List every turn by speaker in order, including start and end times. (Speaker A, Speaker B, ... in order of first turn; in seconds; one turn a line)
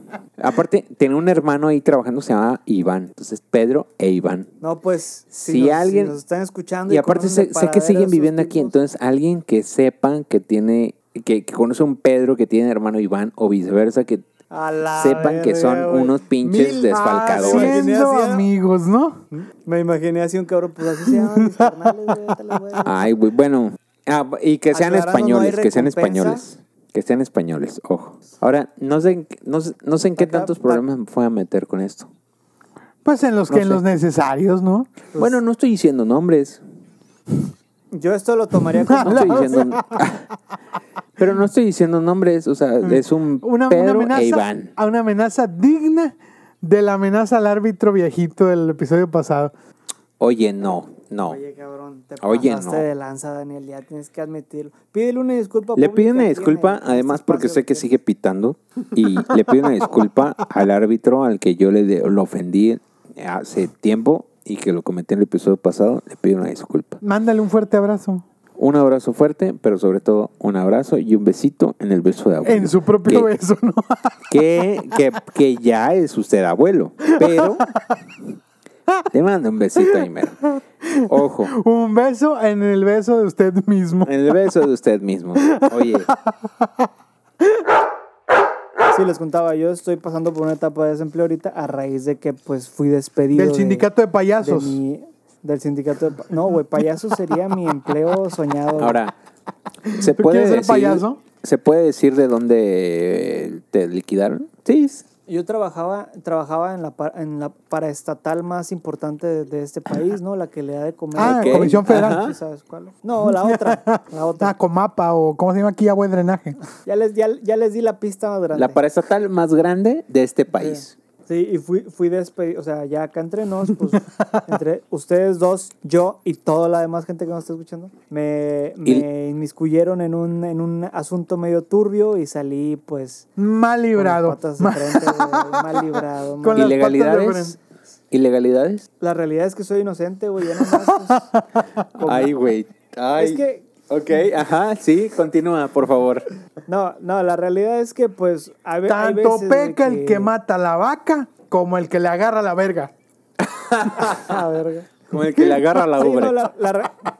Speaker A: 0.4-4.5
Speaker B: 4.6-8.7
Speaker A: 5.3-6.2
Speaker A: 6.9-14.2
Speaker B: 14.5-16.2
Speaker A: 15.0-17.9
Speaker C: 16.4-19.2
Speaker B: 17.3-18.5
Speaker B: 19.3-23.0
Speaker A: 22.8-32.1
Speaker B: 24.7-26.4
Speaker B: 30.2-30.8
Speaker C: 33.0-34.9
Speaker A: 33.5-33.8
Speaker A: 35.2-36.6
Speaker B: 37.9-39.6
Speaker C: 38.8-40.0
Speaker A: 39.0-40.2
Speaker A: 41.2-44.7
Speaker C: 42.8-49.5
Speaker A: 50.2-51.4
Speaker B: 51.2-57.9
Speaker A: 52.2-52.8
Speaker A: 55.8-67.0
Speaker C: 67.0-68.2
Speaker A: 68.6-73.3
Speaker C: 72.4-74.3
Speaker A: 74.3-77.7
Speaker C: 77.1-78.0
Speaker A: 79.1-80.5
Speaker C: 80.8-84.3
Speaker A: 81.1-81.5
Speaker A: 84.0-86.1
Speaker C: 85.4-86.9
Speaker B: 88.9-93.9
Speaker C: 93.3-94.8
Speaker B: 94.4-99.0
Speaker A: 98.8-99.1
Speaker C: 99.9-101.2
Speaker A: 99.9-105.0
Speaker B: 105.3-114.5
Speaker C: 111.1-112.2
Speaker A: 111.2-112.4
Speaker C: 113.2-116.6
Speaker B: 116.8-118.8
Speaker A: 118.5-120.9
Speaker B: 120.6-133.3
Speaker C: 123.9-124.6
Speaker C: 133.4-137.6
Speaker B: 133.9-136.8
Speaker A: 136.5-137.6
Speaker A: 138.1-138.8
Speaker B: 139.0-141.3
Speaker C: 140.6-141.7
Speaker B: 142.0-142.3
Speaker A: 142.0-146.3
Speaker B: 143.2-143.7
Speaker B: 146.7-150.3
Speaker C: 148.9-152.9
Speaker A: 153.4-154.3
Speaker B: 153.9-155.0
Speaker A: 155.1-156.4
Speaker B: 155.9-156.9